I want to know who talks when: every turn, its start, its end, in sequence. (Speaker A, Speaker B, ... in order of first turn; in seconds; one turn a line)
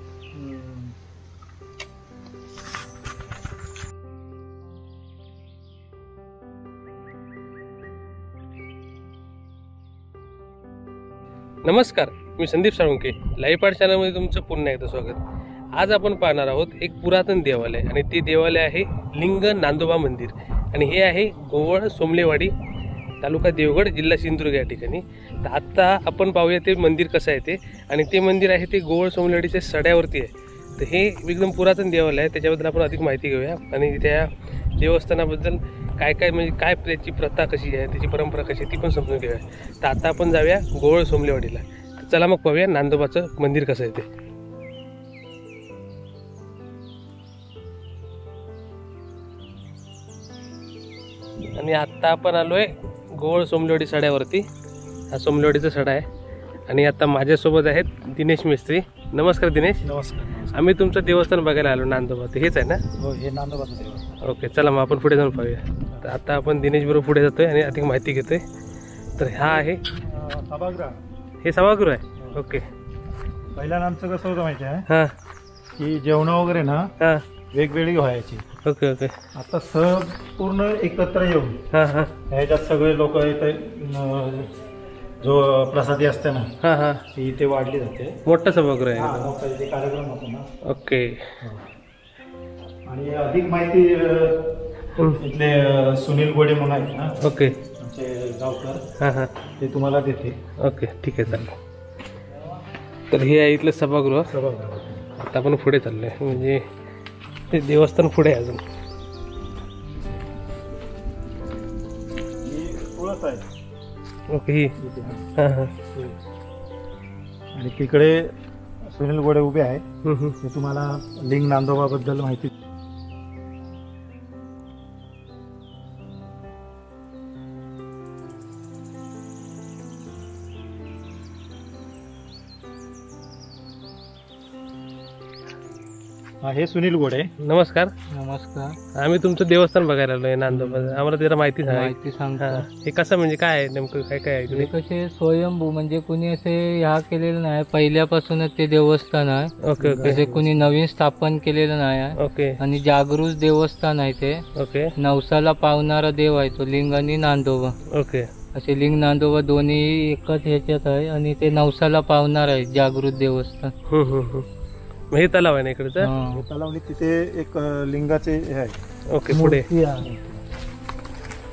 Speaker A: 0.3-0.9
Speaker B: 11.6-15.2
Speaker B: 15.8-22.5
Speaker B: 23.2-44.0
Speaker B: 51.5-54.4
Speaker B: 55.1-56.0
Speaker B: 56.7-59.8
Speaker C: 59.8-60.6
Speaker B: 60.5-62.8
Speaker C: 63.0-64.1
Speaker B: 64.2-68.4
Speaker C: 65.7-66.0
Speaker B: 69.2-69.8
Speaker C: 69.4-70.9
Speaker B: 71.4-72.6
Speaker C: 72.2-72.4
Speaker C: 73.5-74.8
Speaker C: 75.8-76.9
Speaker C: 77.5-78.4
Speaker B: 78.6-79.1
Speaker C: 79.3-81.5
Speaker B: 81.7-82.1
Speaker C: 82.3-84.5
Speaker C: 85.2-86.5
Speaker B: 86.6-87.0
Speaker C: 87.1-88.2
Speaker B: 88.2-89.3
Speaker C: 89.0-90.5
Speaker B: 90.7-91.2
Speaker C: 91.4-91.7
Speaker C: 92.9-94.5
Speaker C: 95.2-97.1
Speaker B: 97.2-97.5
Speaker C: 97.8-98.8
Speaker B: 99.0-99.3
Speaker C: 99.6-100.4
Speaker B: 100.6-101.5
Speaker B: 103.1-104.3
Speaker C: 104.3-105.0
Speaker B: 105.2-106.6
Speaker B: 107.5-108.6
Speaker C: 112.4-113.4
Speaker B: 114.3-114.7
Speaker C: 114.8-115.2
Speaker B: 115.4-115.7
Speaker C: 117.5-118.3
Speaker C: 118.9-119.8
Speaker B: 120.0-120.4
Speaker C: 120.4-122.5
Speaker C: 136.4-137.3
Speaker B: 137.4-137.9
Speaker A: 138.1-138.7
Speaker B: 139.0-144.7
Speaker C: 140.6-140.9
Speaker A: 141.7-142.7
Speaker A: 144.5-154.4
Speaker B: 149.6-150.3
Speaker C: 149.8-150.5
Speaker B: 152.2-152.6
Speaker B: 154.6-154.9
Speaker A: 155.0-157.7
Speaker B: 157.9-158.3
Speaker A: 158.5-163.7
Speaker B: 163.9-164.4
Speaker B: 165.1-166.1
Speaker A: 166.0-166.4
Speaker C: 166.3-170.4
Speaker B: 169.1-169.7